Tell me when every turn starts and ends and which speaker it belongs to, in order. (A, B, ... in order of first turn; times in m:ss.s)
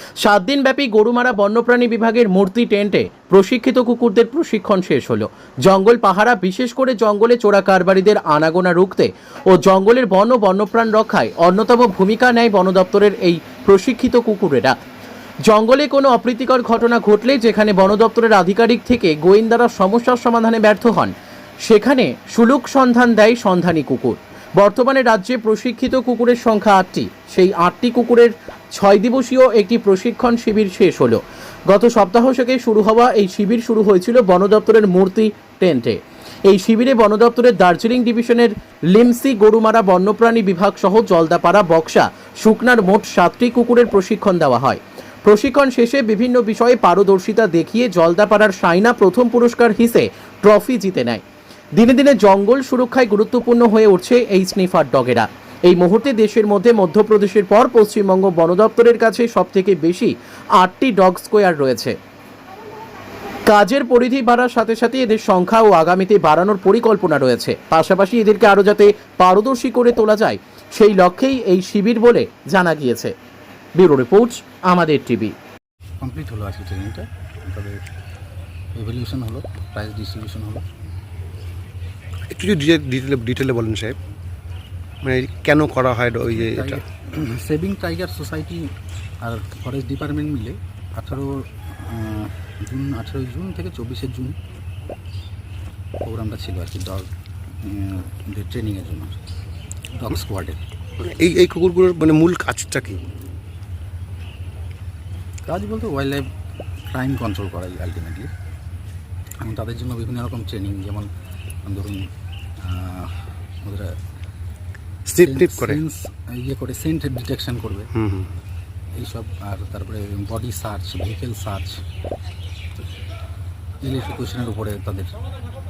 0:00.2-0:14.8 A
0:15.4-0:21.1 A
0:21.6-0:51.2 A
0:51.8-1:02.0 A
1:03.5-1:13.1 A
1:13.8-1:15.3 A
1:16.0-1:17.8 B
1:18.7-1:20.6 B
1:22.3-1:23.9 C
1:25.0-1:26.8 C
1:26.3-1:28.7 B
1:29.2-1:34.4 B
1:36.0-1:37.1 B
1:37.6-1:39.2 B
1:40.0-1:40.6 B
1:41.0-1:43.0 C
1:45.4-1:46.2 B
1:46.9-1:48.3 B
1:49.4-1:51.1 B
1:51.6-1:52.1 B
1:52.6-1:54.0 B
1:55.1-1:55.8 C
1:55.2-1:57.9 B
1:57.9-1:58.3 C
1:59.0-2:01.8 B
2:03.8-2:05.2 B